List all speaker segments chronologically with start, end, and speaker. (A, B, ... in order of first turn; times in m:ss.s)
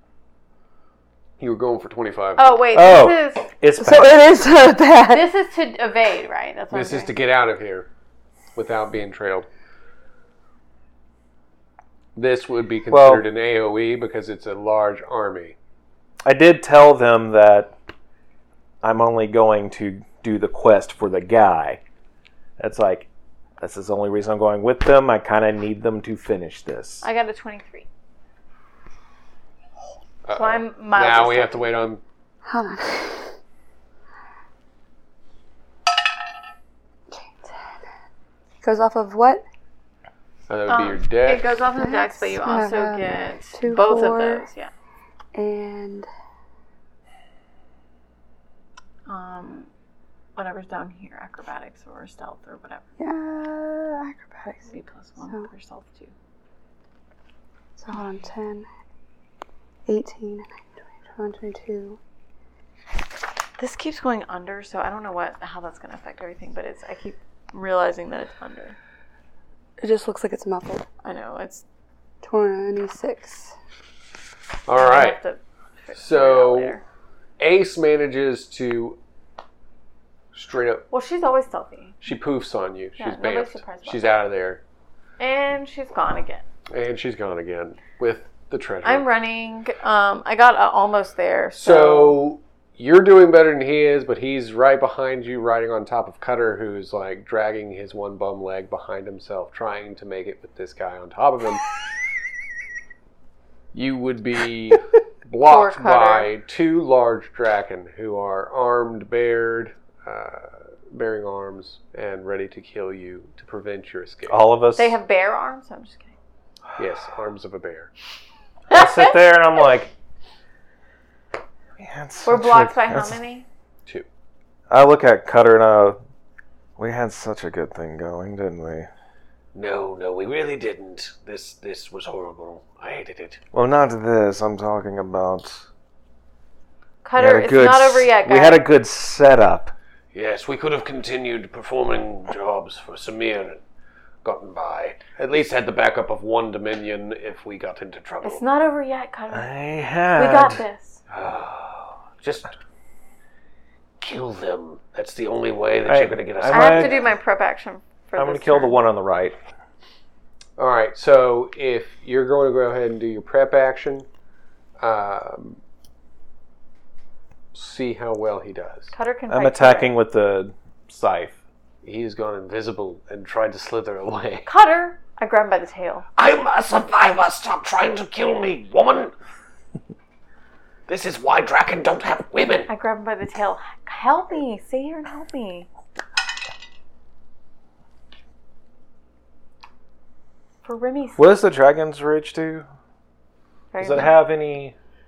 0:01.4-0:02.7 A
0:02.4-0:03.5 B
0:02.7-0:04.2 C
0:03.8-0:05.3 D
0:05.1-0:07.1 B
0:06.7-0:07.9 A
0:08.5-0:09.5 A
0:12.1-0:15.6 A
0:12.9-0:13.2 C
0:16.2-0:17.7 C
0:18.8-0:21.8 C
0:22.6-0:23.1 C
0:23.6-0:27.0 C
0:27.0-0:27.9 B
0:30.2-0:32.0 A
0:30.3-0:31.8 B
0:32.4-0:33.3 D
0:37.1-0:37.8 D
0:38.6-0:39.4 D
0:40.5-0:41.6 A
0:40.7-0:44.7 B
0:41.8-0:44.5 D
0:45.3-0:46.1 D
0:49.1-0:49.7 B
0:50.4-0:52.8 B
0:53.0-0:55.5 D
0:54.7-0:56.1 B
0:57.8-0:58.7 D
0:59.9-1:00.5 D
1:01.0-1:02.0 D
1:03.6-1:08.8 B
1:09.8-1:10.8 D
1:11.0-1:11.6 B
1:12.2-1:13.5 D
1:14.7-1:15.2 A
1:14.8-1:16.8 B
1:15.9-1:16.8 A
1:17.4-1:19.0 A
1:20.3-1:20.8 A
1:20.9-1:22.0 B
1:22.0-1:24.6 A
1:23.0-1:24.1 B
1:25.2-1:26.4 B
1:26.7-1:29.0 A
1:28.8-1:32.2 B
1:31.6-1:41.6 A
1:43.7-1:54.4 A
1:45.4-1:46.3 B
1:54.3-1:55.0 C
1:54.8-1:56.1 B
1:56.8-1:57.9 A
1:58.7-1:59.9 C
1:58.7-1:59.2 B
2:01.8-2:03.2 C
2:02.2-2:03.4 B
2:04.7-2:06.0 C
2:06.8-2:08.9 C
2:09.5-2:13.4 E
2:13.5-2:15.6 C
2:17.0-2:18.6 B
2:17.2-2:19.7 C
2:20.1-2:23.6 E
2:24.2-2:28.4 E
2:28.2-2:29.5 B
2:29.3-2:30.6 C
2:30.1-2:31.0 B
2:31.1-2:32.5 E
2:34.0-2:37.1 E
2:35.8-2:37.0 C
2:36.5-2:38.8 B
2:38.2-2:39.4 C
2:40.6-2:44.1 A
2:44.8-2:45.6 A
2:47.5-2:48.9 A
2:48.9-2:50.0 B
2:49.3-2:51.4 C
2:51.8-2:54.4 E
2:52.0-2:52.8 A
2:54.4-2:56.0 B
2:56.2-2:59.1 E
3:00.9-3:02.7 E
3:02.7-3:05.7 B
3:10.6-3:11.3 B
3:11.2-3:12.7 C
3:13.7-3:14.2 B
3:13.8-3:14.7 C